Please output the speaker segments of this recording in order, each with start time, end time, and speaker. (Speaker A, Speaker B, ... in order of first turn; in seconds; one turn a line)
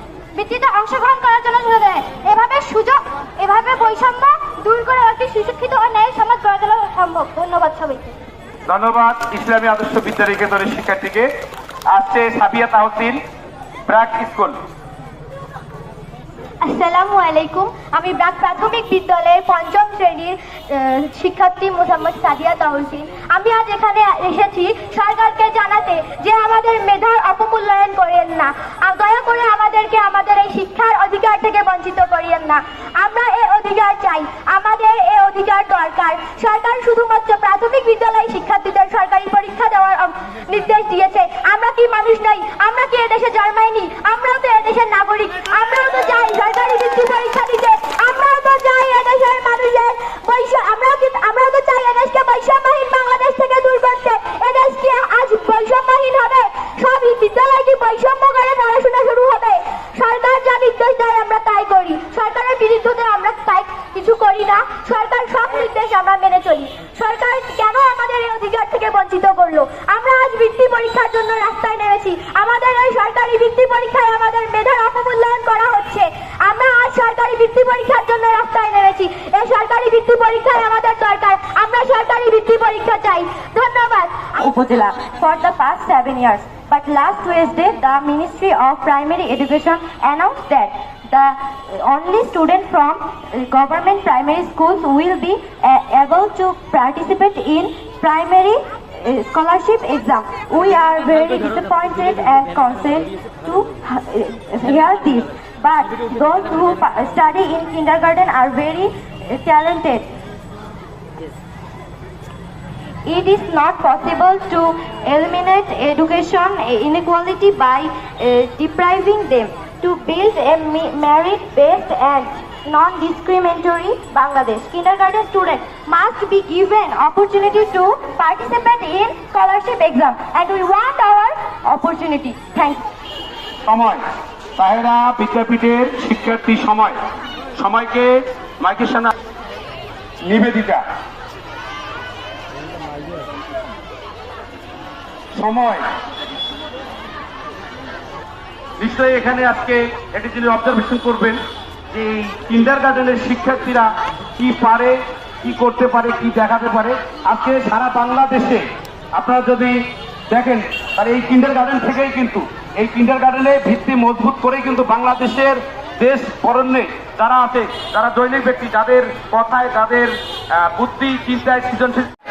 Speaker A: 0.3-8.2
Speaker B: 8.7-11.3
Speaker B: 11.9-13.2
Speaker B: 13.9-14.6
Speaker A: 16.6-84.3
Speaker C: 84.3-110.1
Speaker C: 113.1-130.5
Speaker A: 125.8-126.2
Speaker A: 130.4-131.3
Speaker C: 131.4-132.8
Speaker B: 133.7-134.0
Speaker B: 134.6-137.0
Speaker B: 137.6-139.1
Speaker B: 140.2-140.8
Speaker B: 145.3-145.8
Speaker B: 148.8-151.4
Speaker B: 151.9-158.6
Speaker B: 159.2-172.1